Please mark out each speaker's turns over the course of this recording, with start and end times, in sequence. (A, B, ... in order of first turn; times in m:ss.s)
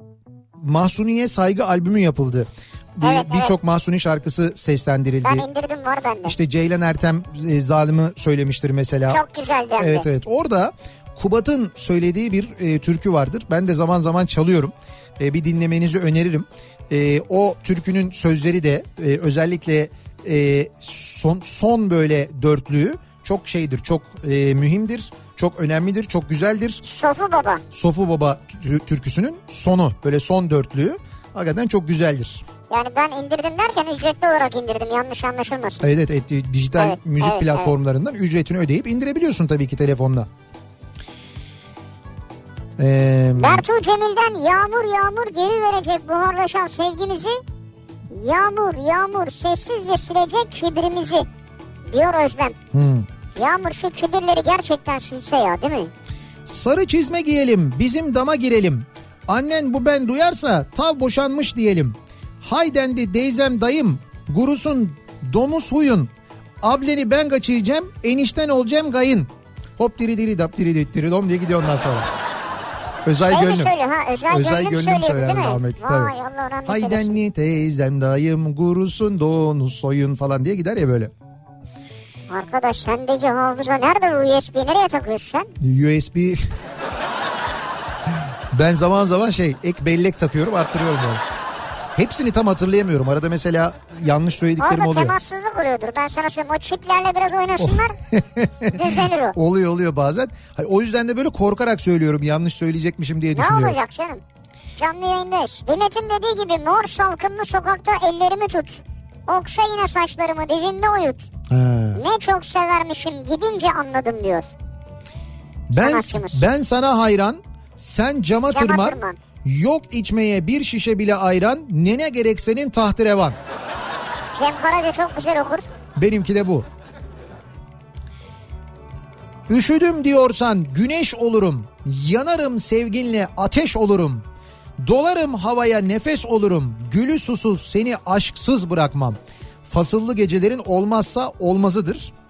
0:00.6-0:05.5 A
0:03.0-0:03.5 B
0:05.2-0:06.4 B
0:06.2-0:09.2 A
0:09.1-0:10.1 B
0:09.8-0:26.8 A
0:26.8-0:27.6 B
0:27.7-0:32.4 A
0:32.7-0:35.9 B
0:35.8-0:40.3 A
0:36.8-0:37.7 B
0:42.8-0:43.7 A
0:43.4-0:47.4 B
0:48.1-0:51.3 B
0:51.9-0:52.6 B
0:52.7-0:53.1 A
0:53.4-0:55.9 B
0:56.5-1:12.1 A
1:13.0-1:13.7 A
1:13.2-1:17.2 B
1:14.3-1:16.1 A
1:16.7-1:21.1 A
1:22.3-1:25.5 B
1:25.6-1:26.4 A
1:28.5-1:31.2 A
1:32.0-1:35.2 A
1:34.6-1:38.0 B
1:37.6-1:43.8 A
1:38.7-1:39.4 B
1:43.3-1:44.2 B
1:44.8-1:51.3 B
1:51.5-1:52.0 A
1:51.9-1:54.5 B
1:55.7-2:03.4 A
1:55.8-1:56.4 B
1:58.5-1:59.2 B
2:04.4-2:05.6 B
2:06.0-2:06.7 A
2:09.5-2:14.2 A
2:14.8-2:22.1 A